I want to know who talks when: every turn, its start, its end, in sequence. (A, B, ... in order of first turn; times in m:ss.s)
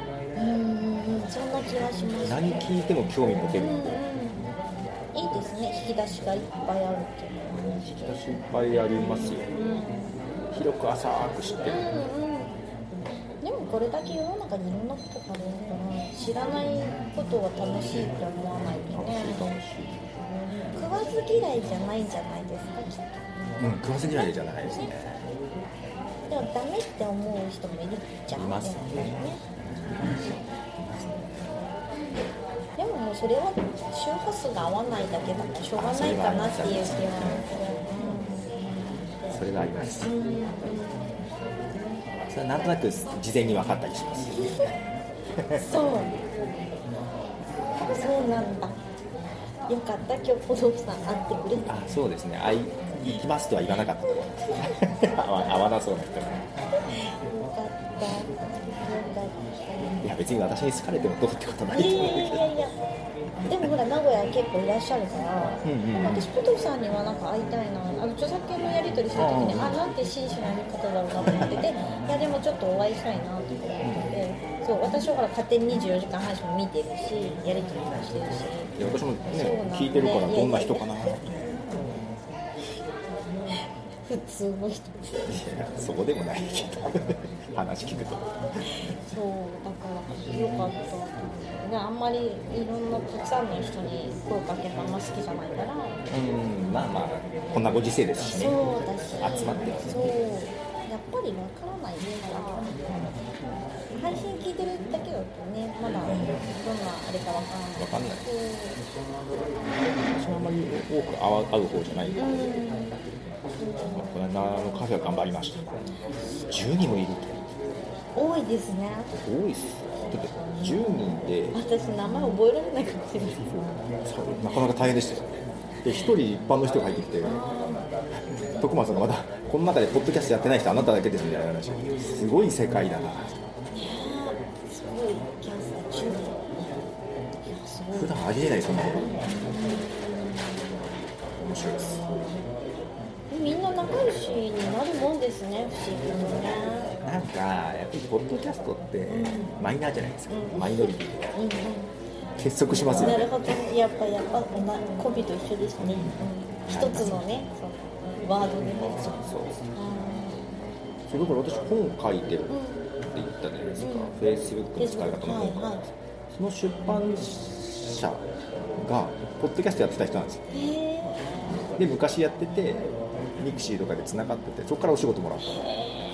0:00.3-0:02.5 A
0:02.2-0:03.9 B
0:03.6-0:04.4 A
0:05.1-0:07.6 A
0:07.5-0:09.5 B
0:08.9-0:10.2 A
0:10.5-0:11.8 B
0:11.6-0:12.6 A
0:13.4-0:19.5 A
0:18.9-0:20.1 B
0:20.7-0:24.9 A
0:23.6-0:25.2 B
0:26.3-0:29.4 A
0:28.3-0:31.2 B
0:32.8-0:39.0 A
0:35.8-0:37.5 B
0:39.3-0:40.1 B
0:40.0-0:41.2 A
0:42.3-0:44.5 B
0:44.4-0:44.7 A
0:45.4-0:45.6 B
0:45.5-0:46.2 A
0:47.8-0:48.8 A
0:49.7-0:51.7 A
0:51.7-0:56.4 B
0:53.9-0:54.8 A
0:57.0-1:00.0 A
1:00.0-1:02.5 B
1:01.7-1:02.8 A
1:03.4-1:18.8 A
1:05.6-1:06.3 B
1:09.1-1:09.8 B
1:11.3-1:11.6 B
1:13.8-1:14.1 B
1:18.8-1:21.2 B
1:19.3-1:21.3 A
1:23.6-1:25.3 A
1:25.3-1:28.3 B
1:28.7-1:36.0 A
1:36.1-1:40.1 B
1:38.3-1:42.7 A
1:42.9-1:43.2 B
1:43.9-1:48.8 A
1:46.0-1:46.5 B
1:47.8-1:48.2 B
1:50.1-1:52.4 B
1:52.2-1:53.0 A
1:53.6-1:54.2 A
1:53.8-1:55.8 B
1:56.5-1:57.4 B
1:58.1-1:59.1 A
1:59.2-2:01.6 B
2:01.5-2:03.7 A
2:04.0-2:07.4 B
2:07.2-2:07.9 A
2:08.5-2:13.3 B
2:13.7-2:16.6 A
2:17.4-2:18.2 A
2:17.9-2:19.1 B
2:19.2-2:20.7 A
2:21.4-2:22.2 B
2:23.3-2:26.9 A
2:27.0-2:31.3 B
2:29.1-2:29.5 A
2:30.3-2:31.9 A
2:32.4-2:33.5 B
2:32.7-2:39.2 A
2:35.8-2:37.2 B
2:38.8-2:39.6 B
2:39.7-2:40.6 A
2:41.1-2:42.5 B
2:42.5-2:42.9 A
2:43.1-2:48.2 B
2:43.8-2:44.2 A
2:44.8-2:45.8 A
2:48.8-2:50.4 B
2:50.5-2:51.4 A
2:51.8-2:52.9 B
2:53.4-2:55.7 B